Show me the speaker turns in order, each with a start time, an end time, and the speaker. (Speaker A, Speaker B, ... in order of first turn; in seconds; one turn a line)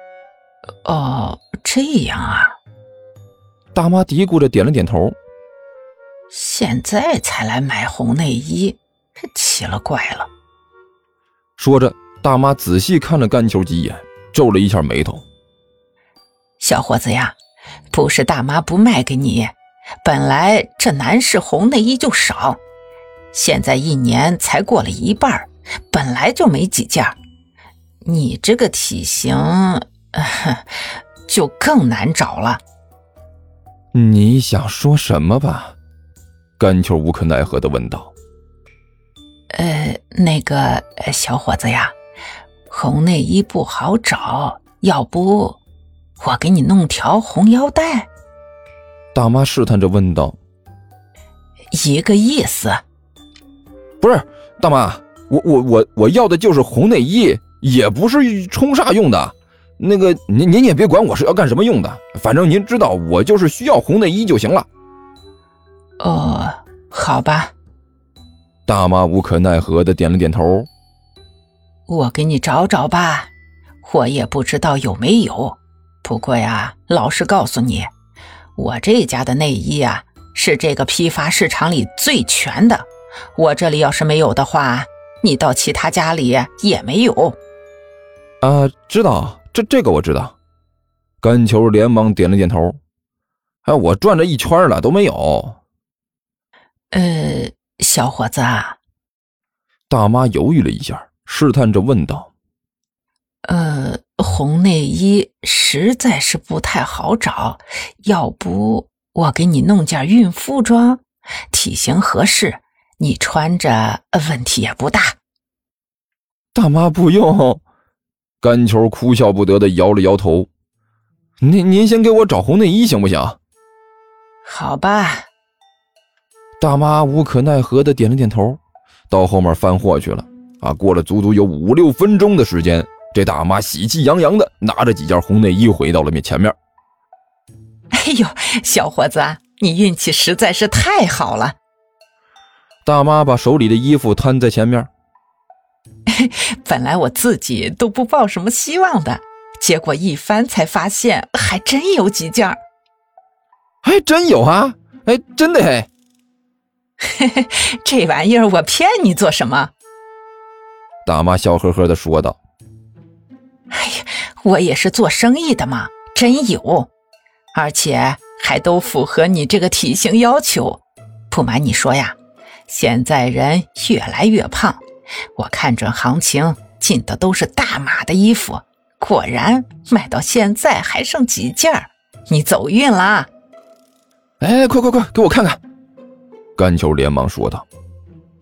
Speaker A: 0.8-2.5
Speaker B: 3.7-5.2
Speaker A: 6.3-10.3
Speaker B: 11.6-15.2
Speaker A: 16.6-17.4
Speaker A: 17.9-22.6
Speaker A: 23.3-27.2
Speaker A: 28.0-32.6
Speaker B: 33.9-35.8
Speaker B: 36.6-38.1
Speaker A: 39.5-41.9
Speaker A: 42.7-45.6
Speaker A: 46.2-48.1
Speaker B: 49.1-50.4
Speaker A: 51.7-52.8
Speaker B: 54.0-64.7
Speaker A: 66.0-67.5
Speaker B: 68.7-70.7
Speaker A: 71.9-73.3
Speaker A: 73.8-77.9
Speaker A: 78.5-87.4
Speaker B: 88.4-90.3
Speaker B: 91.2-92.8
Speaker B: 93.6-95.6
Speaker A: 96.9-98.8
Speaker B: 99.9-102.3
Speaker A: 103.5-115.2
Speaker B: 116.5-117.6
Speaker B: 118.4-120.5
Speaker B: 121.4-123.4
Speaker A: 124.5-125.3
Speaker B: 126.6-128.6
Speaker B: 129.1-136.6
Speaker A: 137.9-141.6
Speaker B: 142.8-144.9
Speaker A: 146.1-152.6
Speaker B: 153.8-155.9
Speaker A: 157.0-159.7
Speaker B: 161.1-162.4
Speaker A: 163.7-166.9
Speaker A: 167.5-172.2
Speaker A: 172.7-174.8
Speaker A: 175.4-183.3
Speaker B: 184.4-185.6
Speaker B: 186.6-187.6